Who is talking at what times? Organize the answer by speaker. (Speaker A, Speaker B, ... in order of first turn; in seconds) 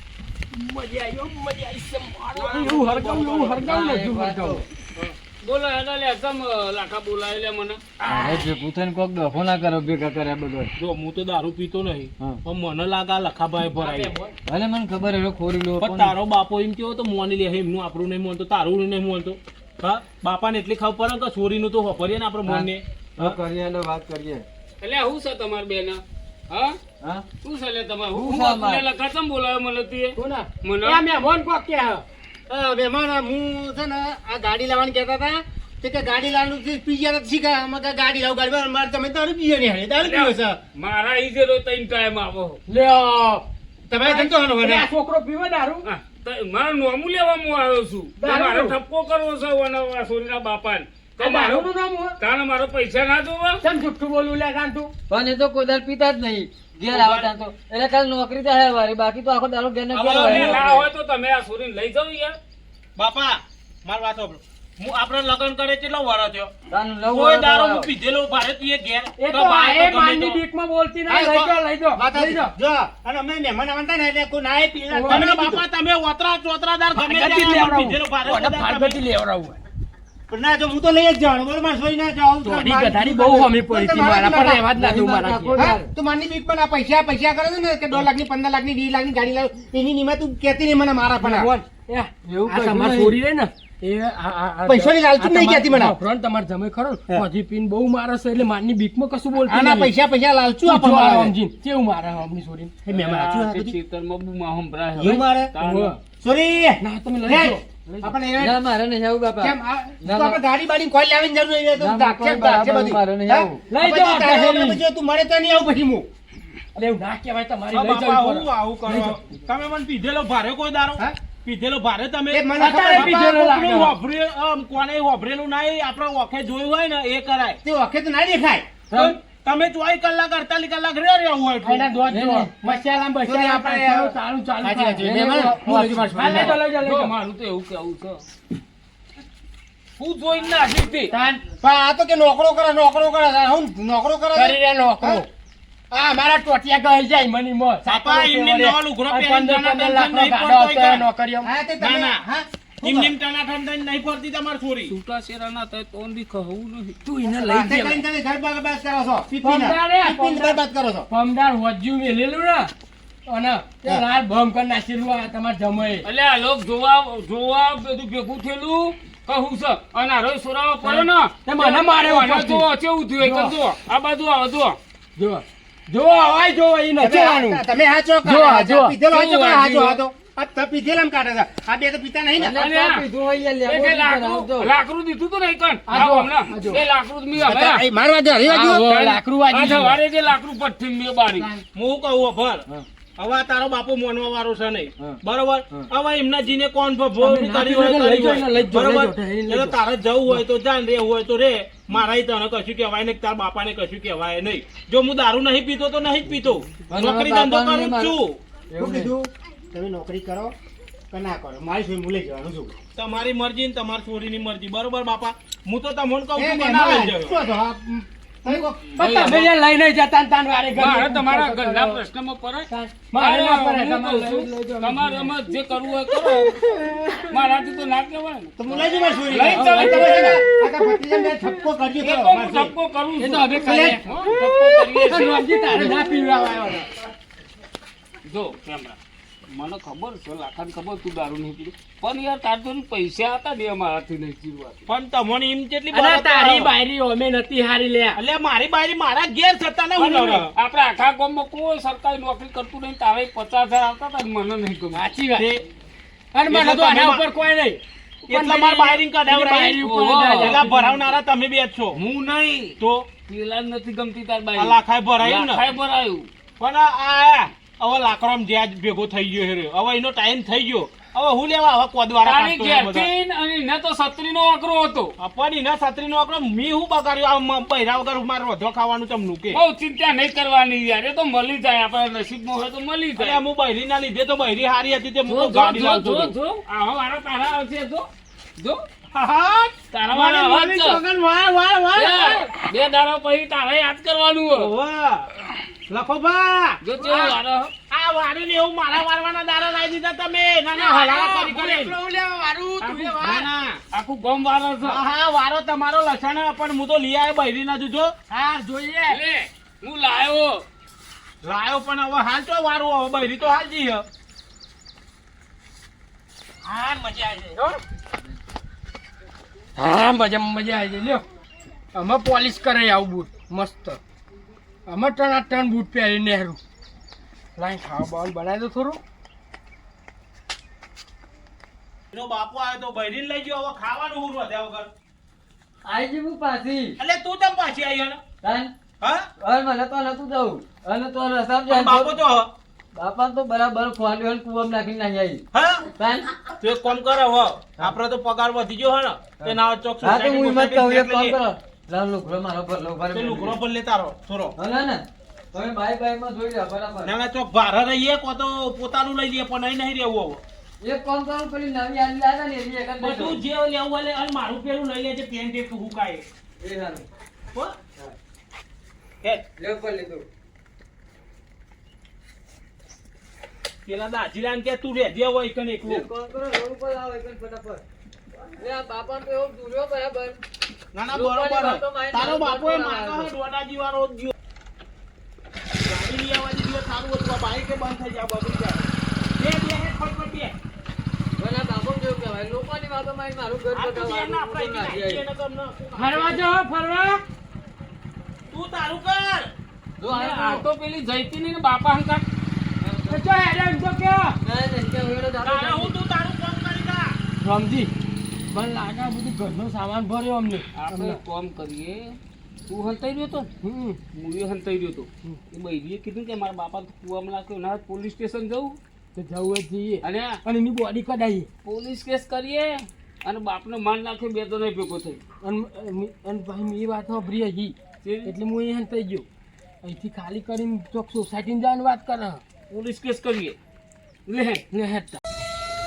Speaker A: 0.5-5.1, 13.8-14.4, 30.2-32.0, 42.7-43.5, 44.0-45.8, 48.2-48.8, 51.2-52.2, 53.6-54.9, 69.2-72.5, 74.9-75.2, 77.0-79.6, 82.4-85.7, 91.2-99.9, 100.7-102.8, 105.6-106.0, 106.8-108.1, 113.7-114.8, 116.8-119.2, 122.9-124.0, 131.6-135.2, 136.1-137.1, 141.1-141.4, 144.3-145.3, 145.9-151.5, 157.0-158.0, 159.4-162.7, 163.3-166.0, 170.8-172.7, 173.2-173.5, 175.2-177.6, 178.2-180.0, 185.9-186.8, 188.5-190.0, 197.2-199.8, 218.5-222.0, 222.7-225.6, 226.1-227.3, 229.5-231.6, 233.2-236.9, 245.9-248.2, 250.0-250.4, 254.9-255.5, 256.3-260.7, 300.7-303.5, 308.3-309.2, 316.6-317.8, 319.8-321.2, 321.9-324.0, 324.9-326.6, 327.6-329.0, 395.9-397.2, 403.1-404.4, 407.4-407.9, 408.5-411.2, 413.6-414.0, 419.1-421.5, 425.4-429.3, 429.8-432.4, 434.7-435.2
Speaker B: 2.3-3.7, 10.8-14.1, 15.8-23.4, 56.9-57.3, 59.9-60.8, 63.0-66.5, 67.0-70.4, 75.1-79.0, 117.7-127.6, 128.9-131.9, 147.8-151.0, 151.8-152.2, 152.8-154.9, 191.7-192.6, 193.2-208.4, 212.9-217.3, 244.9-246.7, 248.2-250.5, 255.4-255.6, 256.5-257.2, 258.3-262.0, 262.8-263.1, 264.6-265.6, 266.6-273.1, 275.2-279.6, 283.2-286.3, 289.1-292.5, 294.5-295.3, 295.9-296.8, 297.9-301.9, 303.2-303.8, 304.8-308.1, 311.4-314.0, 332.1-334.9, 337.0-338.2, 339.0-339.3, 341.7-342.5, 345.5-345.9, 346.6-351.4, 353.1-354.5, 357.0-360.4, 363.0-366.2, 373.9-376.1, 380.9-384.3, 385.8-390.6, 393.7-396.4, 398.5-399.5, 405.4-407.1
Speaker C: 3.6-4.6, 8.1-10.7, 14.5-16.2, 22.4-24.4, 27.0-27.3, 28.1-28.8, 55.1-60.7, 66.7-67.9, 84.7-85.9, 92.3-93.2, 108.4-110.4, 111.8-113.6, 128.9-129.2, 132.1-132.5, 135.0-136.5, 182.4-184.7, 206.9-208.1, 208.7-209.1, 335.8-337.0, 338.4-338.7, 339.4-342.1, 342.9-346.3, 349.4-353.6, 354.6-357.1, 360.8-363.4, 366.6-367.1, 369.6-370.3, 375.8-377.8, 378.6-380.4, 381.1-383.3, 391.4-395.2, 400.0-400.6, 402.8-403.2, 404.4-405.9
Speaker D: 5.4-8.4, 24.8-26.8, 27.4-31.0, 40.0-42.6, 45.8-51.7, 52.2-53.6, 60.1-62.4, 102.9-105.9, 136.7-138.2, 140.0-141.1, 154.9-157.0, 166.0-174.8, 182.6-183.0, 183.7-187.8, 188.5-191.5, 218.9-219.5, 220.8-226.6, 227.2-228.5, 229.3-230.4, 232.0-233.6, 234.1-235.9, 238.2-244.9, 250.5-255.0, 259.8-261.1, 261.9-266.3, 272.2-275.1, 279.5-283.4, 285.3-288.8, 289.9-291.0, 291.9-294.7, 296.8-297.7, 302.8-303.3, 303.9-305.0, 309.1-310.6, 400.1-402.2, 410.8-412.2, 412.7-413.5, 414.1-418.8, 420.0-420.4, 421.6-425.2, 428.0-428.3, 432.7-433.6, 434.3-434.6
Speaker E: 32.5-40.6, 43.9-44.9, 71.1-75.6, 80.3-84.7, 85.5-91.5, 94.7-95.9, 99.5-101.3, 102.8-103.7, 105.0-105.5, 106.2-108.6, 109.4-116.1, 122.3-123.2, 127.6-128.7, 132.6-136.6, 141.6-145.2, 151.4-153.1, 157.3-161.1, 177.0-182.6, 187.3-189.1, 208.8-210.5, 211.1-212.7, 216.3-218.8, 228.6-232.7, 233.6-234.0